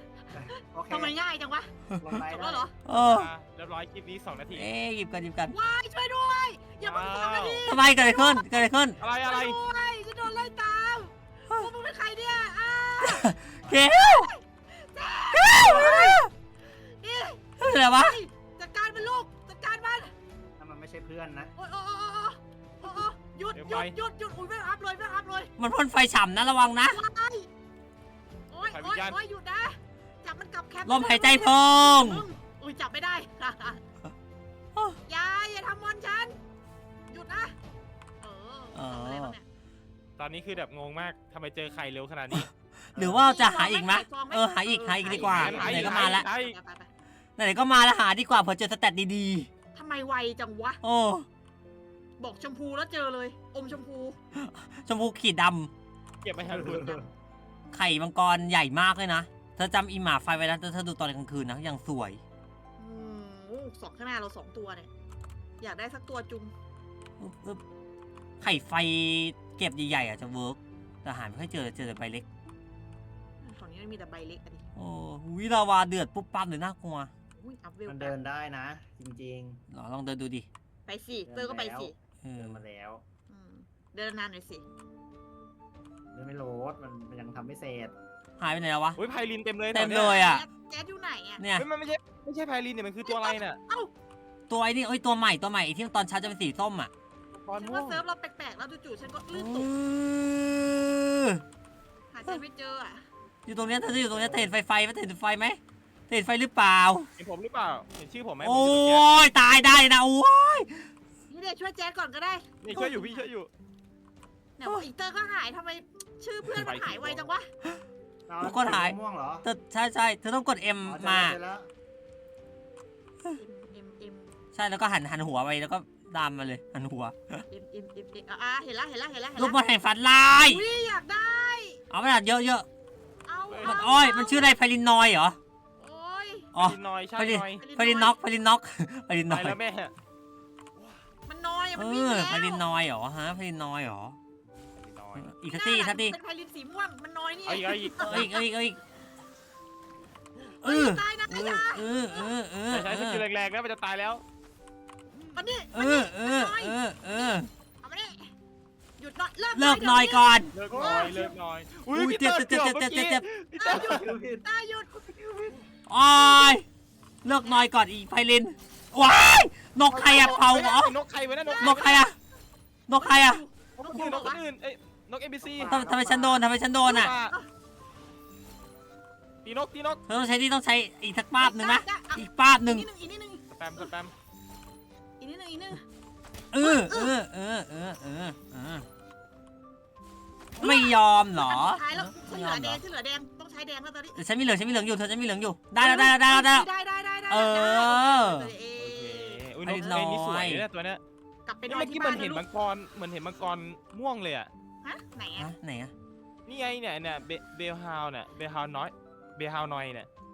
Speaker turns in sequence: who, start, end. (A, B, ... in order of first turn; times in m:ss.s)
0:00.3-0:01.1 A
0:00.5-0:01.7 B
0:02.0-0:02.7 A
0:02.3-0:02.7 B
0:02.8-0:03.3 C
0:02.9-0:04.7 D
0:04.5-0:05.5 C
0:05.5-0:20.1 B
0:06.8-0:07.6 D
0:07.6-0:09.0 C
0:09.0-0:09.6 D
0:13.0-0:14.3 C
0:15.3-0:16.3 C
0:15.6-0:16.2 A
0:17.6-0:18.2 C
0:20.6-0:21.5 A
0:21.6-0:25.5 B
0:23.5-0:23.9 D
0:25.6-0:27.0 C
0:26.9-0:27.5 B
0:28.5-0:33.8 B
0:28.6-0:29.2 D
0:30.8-0:32.2 C
0:35.1-0:36.4 B
0:37.1-0:37.5 B
0:38.2-0:39.4 B
0:38.7-0:39.4 C
0:40.2-0:42.5 D
0:42.3-0:46.2 C
0:42.9-0:43.3 A
0:43.2-0:46.9 B
0:45.0-0:45.9 A
0:45.1-0:46.5 D
0:47.4-0:49.5 C
0:49.7-0:50.8 B
0:50.8-0:51.3 C
0:52.2-0:54.2 B
0:54.3-0:55.7 C
0:56.2-0:57.0 D
0:56.4-0:57.1 A
0:57.7-1:02.2 C
1:02.8-1:04.9 B
1:05.6-1:06.5 B
1:07.2-1:07.6 C
1:08.4-1:12.2 C
1:13.4-1:14.6 B
1:14.8-1:17.1 C
1:17.4-1:18.1 B
1:17.8-1:19.6 A
1:19.7-1:20.5 C
1:20.9-1:21.9 B
1:21.2-1:23.0 A
1:22.2-1:22.6 C
1:23.3-1:24.6 B
1:26.1-1:27.9 A
1:28.4-1:29.0 C
1:29.0-1:30.2 D
1:29.7-1:30.4 C
1:29.8-1:31.4 B
1:31.4-1:31.7 C
1:31.6-1:33.6 D
1:33.0-1:33.9 B
1:34.5-1:36.9 C
1:37.3-1:38.0 D
1:37.6-1:39.7 B
1:39.3-1:41.4 C
1:42.1-1:43.0 B
1:43.5-1:47.1 C
1:43.9-1:44.2 D
1:47.2-1:49.1 D
1:48.4-1:50.9 C
1:51.3-1:53.2 B
1:52.6-1:53.5 D
1:54.6-1:57.5 B
1:56.5-1:57.2 D
1:58.3-1:59.4 A
1:58.4-2:01.4 C
2:00.8-2:01.7 A
2:03.3-2:04.3 B
2:04.5-2:07.4 C
2:07.5-2:09.6 B
2:09.4-2:10.6 C
2:10.4-2:11.8 B
2:11.9-2:12.7 C
2:13.3-2:14.5 B
2:13.5-2:13.8 D
2:13.6-2:15.4 C
2:15.8-2:16.5 B
2:16.5-2:19.6 C
2:16.6-2:17.6 D
2:17.6-2:18.2 B
2:19.3-2:19.9 D
2:21.3-2:22.6 B
2:21.8-2:24.2 C
2:24.8-2:25.3 D
2:25.2-2:26.2 C
2:25.5-2:28.4 B
2:27.4-2:28.3 D
2:28.0-2:28.8 C
2:30.6-2:33.2 C
2:30.6-2:32.3 B
2:32.7-2:34.2 D
2:35.3-2:38.3 B
2:35.7-2:37.5 C
2:39.0-2:40.4 B
2:39.5-2:40.5 C
2:40.5-2:44.0 D
2:40.7-2:41.3 A
2:41.9-2:43.2 C
2:43.6-2:44.9 B
2:43.7-2:45.6 A
2:45.9-2:46.6 C
2:46.2-2:46.5 B
2:47.2-2:51.0 C
2:47.4-2:47.7 B
2:49.9-2:51.9 D
2:51.4-2:52.1 B
2:51.6-2:52.2 C
2:52.9-2:53.4 C
2:53.0-2:54.4 B
2:53.8-2:55.8 D
2:53.9-2:54.2 C
2:55.4-2:56.4 A
2:55.7-2:57.1 C
2:56.8-2:57.3 D
2:59.4-3:00.0 D
3:00.1-3:02.8 C
3:01.4-3:03.9 B
3:03.5-3:04.1 D
3:05.2-3:05.8 B
3:06.5-3:08.9 C
3:06.6-3:07.1 B
3:10.6-3:12.8 C
3:10.6-3:14.2 B
3:14.2-3:16.7 C
3:15.8-3:20.0 B
3:17.3-3:18.5 C
3:18.8-3:21.0 D
3:19.6-3:20.6 C
3:21.4-3:22.4 B
3:21.7-3:24.5 D
3:24.8-3:25.5 B
3:25.4-3:25.9 C
3:26.4-3:30.1 D